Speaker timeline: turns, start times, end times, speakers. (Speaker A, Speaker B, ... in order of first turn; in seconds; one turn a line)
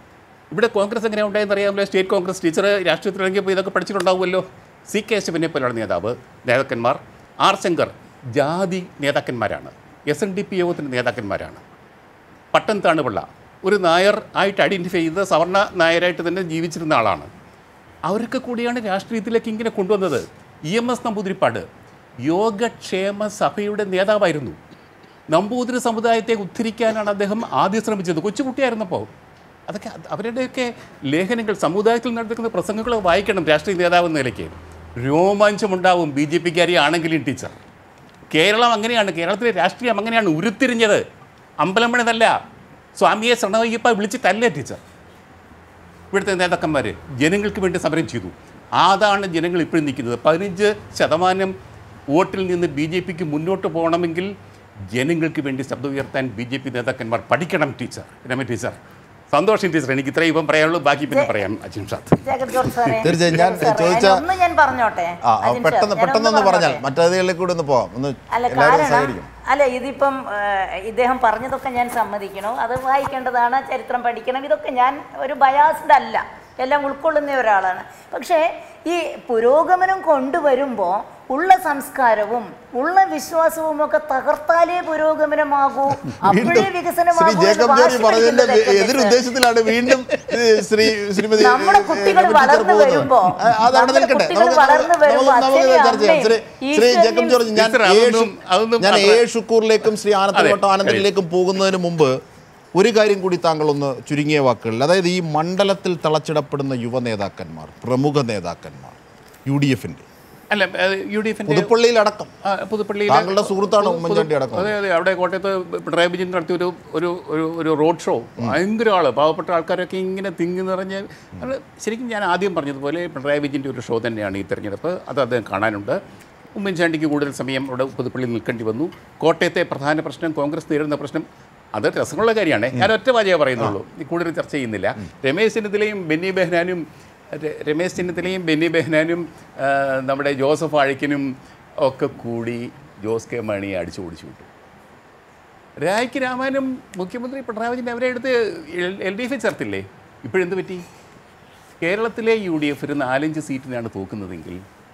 Speaker A: 0.5-11.6
Speaker A: 12.5-17.3
Speaker A: 18.1-21.6
Speaker A: 22.2-24.6
Speaker A: 25.3-29.1
Speaker A: 29.7-37.5
Speaker A: 38.3-41.0
Speaker A: 41.6-42.3
Speaker A: 43.0-44.8
Speaker A: 46.1-51.5
Speaker A: 52.1-54.3
Speaker A: 54.9-58.8
Speaker A: 59.3-63.4
Speaker B: 62.2-66.8
Speaker C: 63.0-64.2
Speaker C: 65.2-69.3
Speaker B: 68.3-89.3
Speaker C: 86.0-102.1
Speaker A: 89.8-90.3
Speaker B: 91.4-97.4
Speaker A: 97.5-99.2
Speaker A: 100.3-101.1
Speaker C: 102.8-110.0
Speaker A: 110.5-111.7
Speaker C: 111.5-112.3
Speaker A: 112.4-126.0
Speaker C: 113.1-114.7
Speaker A: 126.5-144.5
Speaker A: 145.8-150.8
Speaker A: 151.8-154.6